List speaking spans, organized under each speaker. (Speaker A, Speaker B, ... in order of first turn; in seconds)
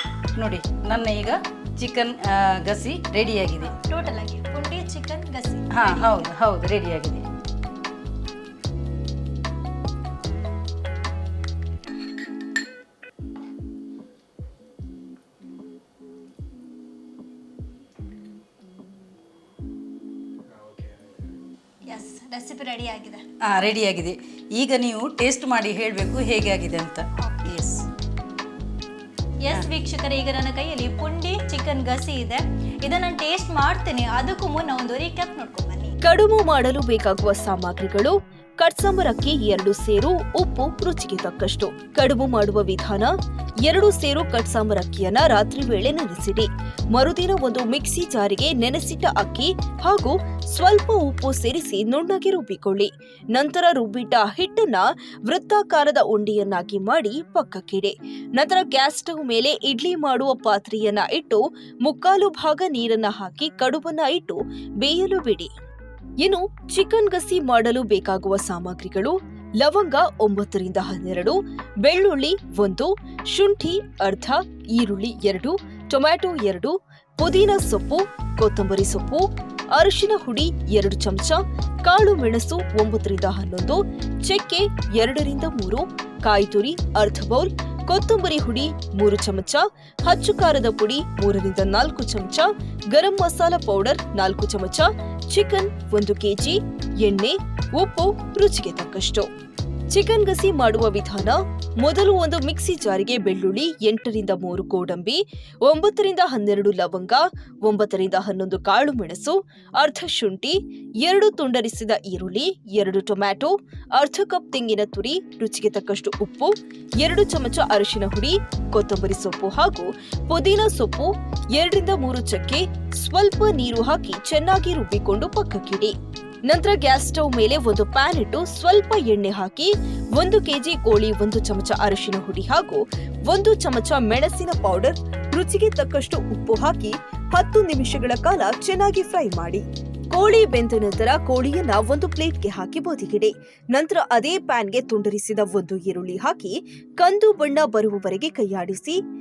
Speaker A: 0.3-3.7, 5.7-7.3, 23.4-27.8
Speaker B: 3.6-6.3, 21.9-23.2, 27.2-27.5, 29.4-36.0
Speaker C: 36.0-65.5, 66.2-99.3, 99.9-125.9, 126.5-149.0